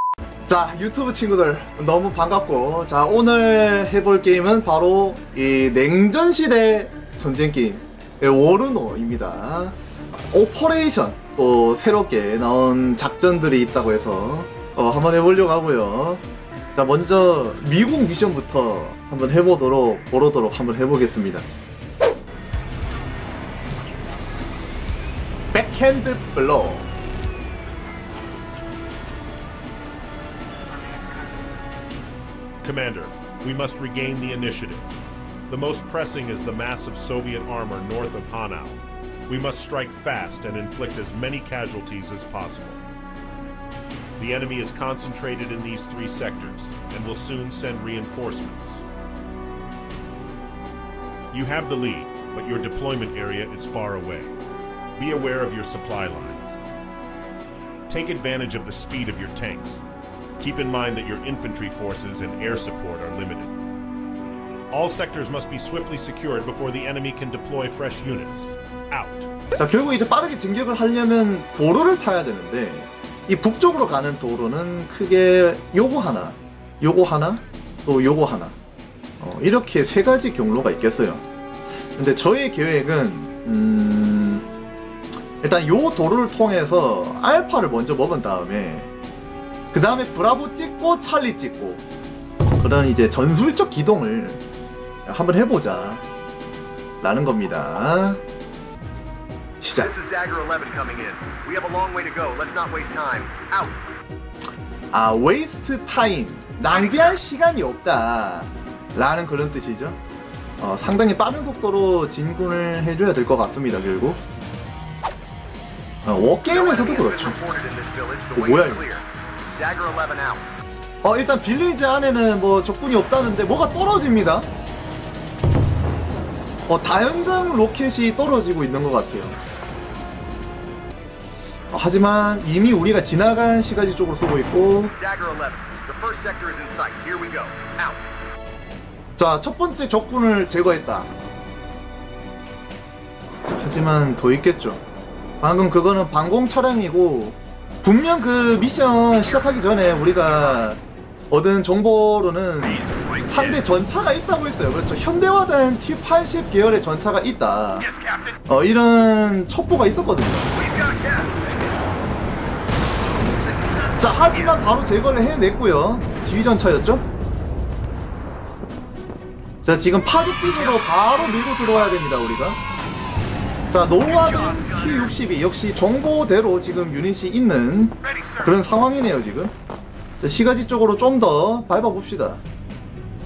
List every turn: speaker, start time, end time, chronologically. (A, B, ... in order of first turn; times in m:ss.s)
0:00.5-0:09.8 A
0:10.3-0:16.2 A
0:16.8-0:21.5 A
0:25.5-0:26.9 A
0:32.6-0:35.0 B
0:35.5-0:42.8 B
0:44.2-0:48.8 B
0:51.3-0:54.3 B
0:55.0-0:56.6 B
0:57.9-0:59.8 B
1:00.4-1:03.5 B
1:04.7-1:09.3 B
1:09.6-1:18.6 A
1:19.2-1:21.2 A
1:22.0-1:24.5 A
1:25.4-1:28.9 A
1:29.7-1:31.8 A
1:32.5-1:34.4 A
1:35.1-1:36.0 A
1:37.0-1:38.2 A
1:39.6-1:39.9 A
1:39.8-1:43.8 C
1:44.9-1:50.0 A
1:46.8-1:47.2 C
1:50.6-1:54.2 A
1:56.0-1:57.4 A
1:56.5-1:59.0 C
1:58.4-1:58.9 A
1:59.6-2:00.4 C
2:01.0-2:04.5 A
2:06.7-2:09.4 A
2:11.7-2:15.0 A
2:15.0-2:18.0 C
2:19.2-2:21.1 A
2:23.5-2:24.8 A
2:25.4-2:37.9 A
2:29.2-2:30.7 C
2:32.9-2:33.2 C
2:37.8-2:38.4 C
2:38.5-2:40.5 A
2:40.6-2:41.5 C
2:43.2-2:44.6 C
2:44.0-2:47.0 A
2:49.6-2:52.6 A
2:50.8-2:51.9 C
2:53.7-2:59.5 A
2:54.1-2:55.1 C
2:58.0-2:58.5 C
3:00.2-3:02.4 A